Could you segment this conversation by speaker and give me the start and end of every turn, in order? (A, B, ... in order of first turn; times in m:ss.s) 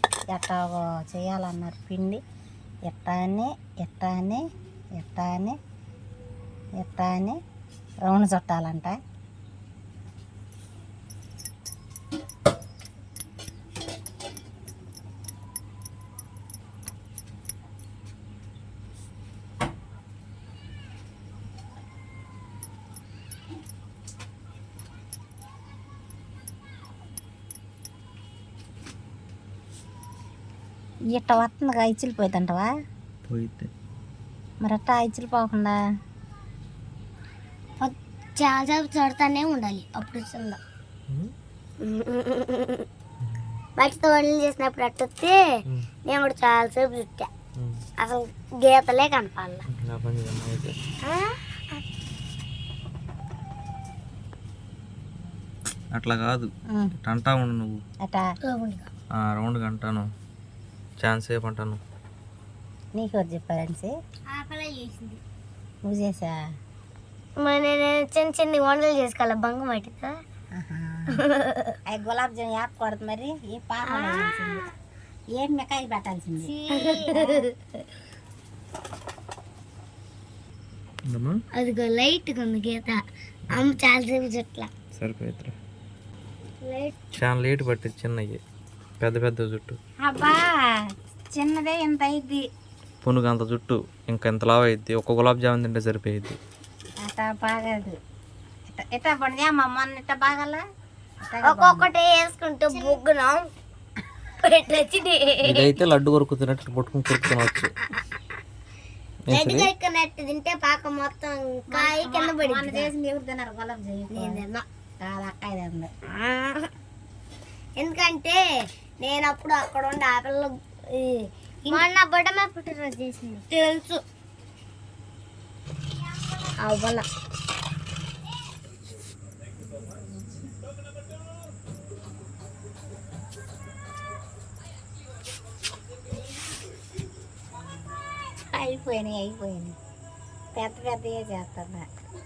0:00.3-0:02.2 A
0:02.9-0:04.4 A
0:05.0-0:05.6 A
0:06.8-0:07.4 A
0:08.0-0:09.0 A
0:31.1-0:32.7 A
0:33.3-0:33.7 B
0:34.6-0:35.8 A
0:37.8-0:40.6 C
0:41.8-0:42.9 C
0:43.2-0:43.6 B
0:43.8-0:45.4 C
0:46.0-0:47.3 C
0:48.0-0:49.6 C
0:49.7-0:50.8 B
0:51.0-0:51.8 C
0:55.9-0:56.5 B
0:57.0-0:57.8 B
0:58.4-0:58.9 C
0:59.2-1:00.1 B
1:01.0-1:01.8 B
1:02.9-1:03.9 A
1:04.3-1:05.2 C
1:05.8-1:06.4 A
1:07.4-1:10.1 C
1:10.5-1:11.2 A
1:11.2-1:11.8 C
1:11.9-1:14.6 A
1:13.9-1:14.3 C
1:15.3-1:17.4 A
1:16.4-1:17.5 C
1:21.1-1:21.4 B
1:21.5-1:24.7 C
1:24.9-1:25.5 B
1:26.6-1:26.9 C
1:27.1-1:28.4 B
1:29.0-1:29.8 B
1:30.0-1:30.8 A
1:31.4-1:32.4 A
1:33.0-1:36.4 B
1:37.0-1:38.0 A
1:38.7-1:40.6 A
1:41.2-1:41.9 A
1:41.4-1:43.5 C
1:44.4-1:45.7 C
1:45.4-1:47.7 B
1:49.3-1:49.7 B
1:49.3-1:52.9 C
1:51.7-1:54.4 A
1:54.1-1:54.6 C
1:55.0-1:55.9 A
1:56.2-1:56.7 C
1:57.8-1:58.4 C
1:59.0-2:04.0 C
2:06.7-2:07.0 C
2:18.5-2:19.7 A
2:20.5-2:21.9 A